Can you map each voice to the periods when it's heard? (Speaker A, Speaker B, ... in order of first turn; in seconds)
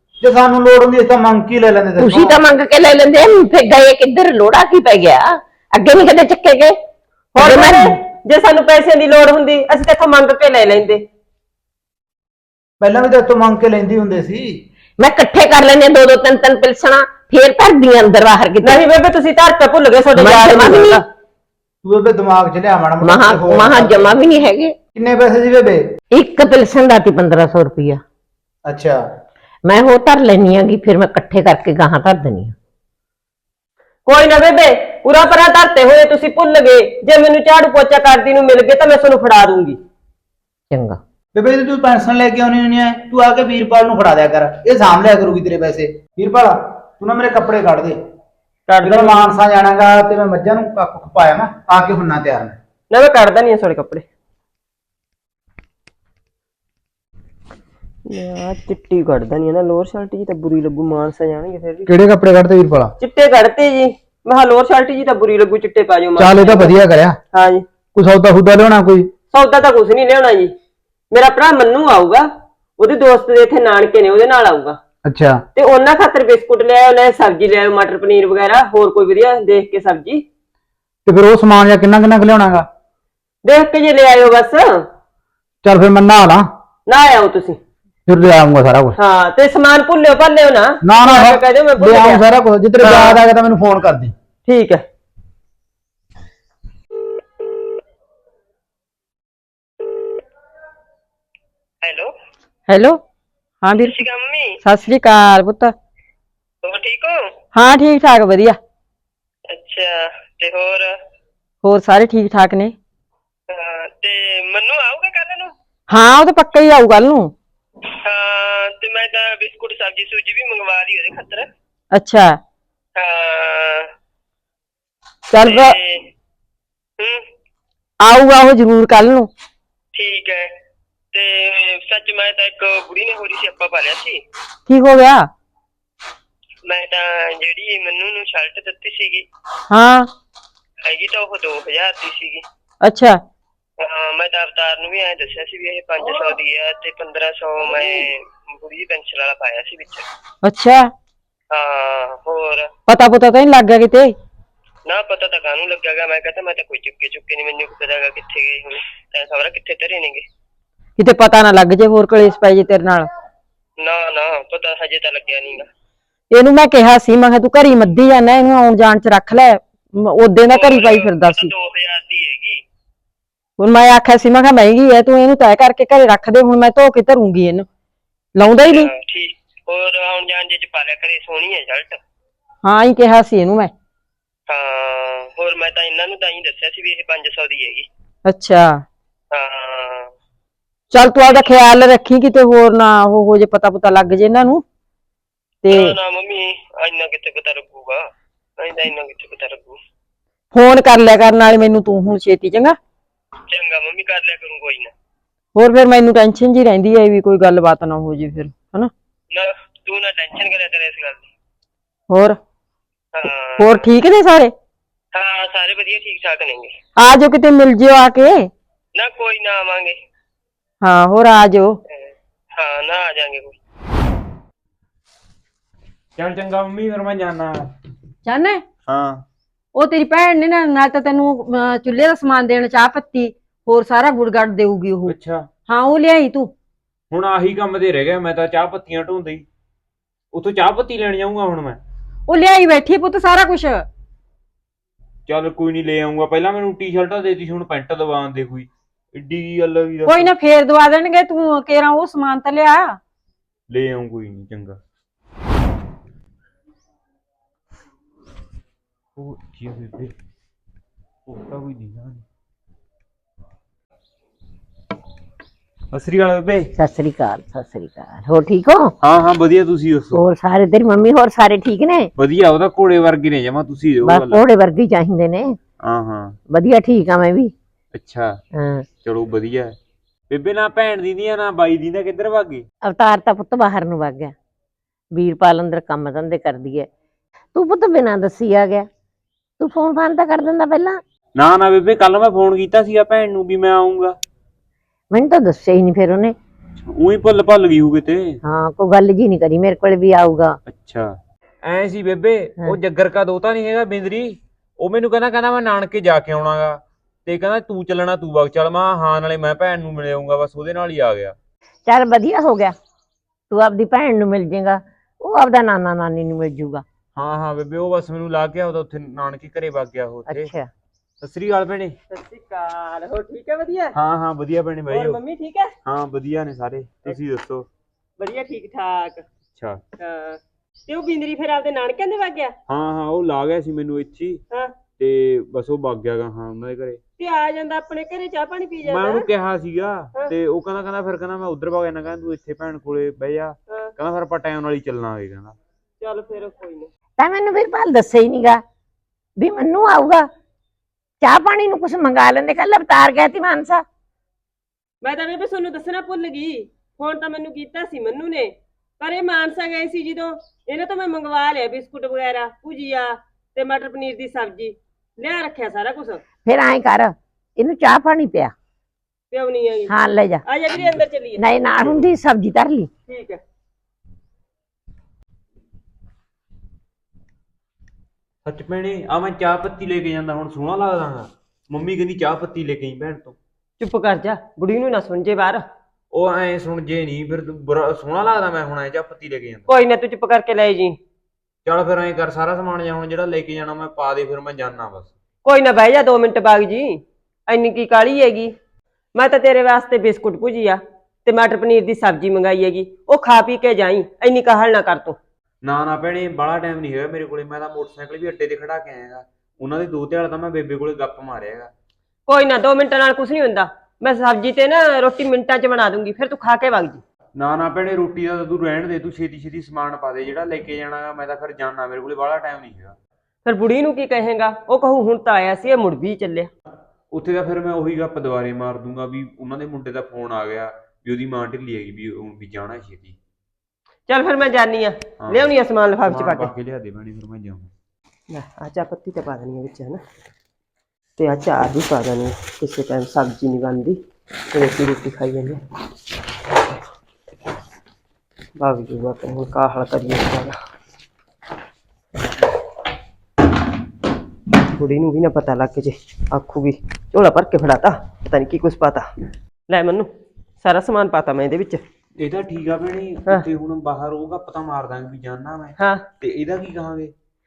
Speaker A: 0.2-2.4, 12.8-14.5, 21.8-24.1, 24.9-25.8, 28.7-29.0, 41.4-48.0, 48.8-52.6, 61.9-62.9, 66.2-67.2, 67.9-69.1, 75.0-75.4, 81.1-82.7, 85.6-86.5, 88.1-89.0, 90.8-94.1
Speaker B: 2.0-6.8, 7.4-7.9, 15.0-18.8, 20.2-21.0, 23.0-24.8, 26.1-28.0, 29.7-32.5, 40.7-41.0, 266.8-268.9, 270.1-272.1, 274.0-275.6, 276.5-277.5, 278.6-278.9, 282.9-284.3, 285.1-286.9, 287.5-288.9, 289.6-291.0, 295.1-296.3, 298.4-300.6, 311.9-312.7, 313.5-316.8, 320.3-320.7, 347.2-348.6, 349.4-350.3, 351.2-353.8, 366.4-368.5, 369.9-370.4, 371.4-372.9
Speaker C: 7.3-11.0, 18.6-21.0, 34.1-39.8, 48.7-49.3, 52.9-54.0, 58.1-61.9, 63.0-66.8, 67.3-67.6, 69.3-70.5, 71.1-72.2, 72.8-74.8, 75.6-80.2, 83.4-84.8, 86.9-87.6, 89.0-92.2, 92.8-93.2, 94.5-94.8, 322.1-323.9, 324.9-325.7, 328.2-329.2, 330.0-332.6, 337.2-339.2, 346.0-346.9, 355.0-366.2, 369.3-369.9, 370.5-371.4, 373.1-373.4, 383.8-385.6, 389.7-391.0, 395.4-398.5, 399.1-405.2, 412.3-417.0, 423.4-426.5, 434.1-436.5, 438.3-440.0, 441.2-444.0, 444.5-445.6, 448.6-450.6, 454.8-459.1, 459.7-460.1, 460.6-461.8, 465.8-466.1
Speaker D: 101.8-102.1, 103.8-104.6, 106.6-107.3, 109.5-111.0, 113.5-115.5, 118.0-121.5, 123.0-123.9, 125.4-126.1, 127.0-127.2, 129.9-130.5, 131.1-134.2, 136.7-139.3, 140.8-142.4, 143.8-150.1, 151.5-152.7, 154.9-160.2, 163.8-165.7, 170.5-172.6, 178.7-182.0, 184.5-187.9, 189.3-190.1, 195.7-199.8, 203.5-204.9, 209.3-211.2, 213.1-213.8, 215.1-216.8, 218.9-220.0, 221.9-223.6
Speaker E: 102.7-103.0, 103.6-104.0, 104.6-105.7, 107.5-108.6, 111.6-112.8, 115.9-117.3, 121.9-122.4, 125.3-125.8, 128.0-129.3, 134.7-135.3, 139.7-140.1, 142.8-143.2, 150.4-150.9, 152.9-154.2, 161.0-163.1, 166.3-171.5, 173.6-177.7, 178.3-178.9, 182.6-183.7, 188.2-188.8, 190.9-194.6, 195.6-195.9, 200.5-202.8, 205.6-208.9, 212.1-212.4, 213.6-214.5, 217.0-218.5, 220.8-221.8, 228.2-228.6, 229.8-235.1, 235.7-236.5, 242.3-243.9, 250.1-253.0
Speaker F: 226.2-227.7, 228.9-229.2, 235.1-235.5, 237.1-239.4, 240.3-241.8, 245.3-250.3, 253.7-254.8, 259.2-260.1, 261.2-262.2, 265.9-266.7, 269.0-270.2, 272.2-274.4, 275.8-276.4, 277.9-278.4, 279.0-279.8, 280.3-282.7, 291.4-294.2, 296.8-298.4, 300.7-311.4, 317.2-320.5, 321.2-321.9, 323.9-325.2, 325.9-327.7, 329.6-329.8, 332.7-334.4, 335.0-337.0, 338.8-345.6, 371.8-372.1, 378.4-383.4, 386.1-389.6, 391.6-395.1, 405.6-411.7, 417.3-422.9, 427.1-433.2, 435.2-435.5, 436.0-437.7, 462.2-467.1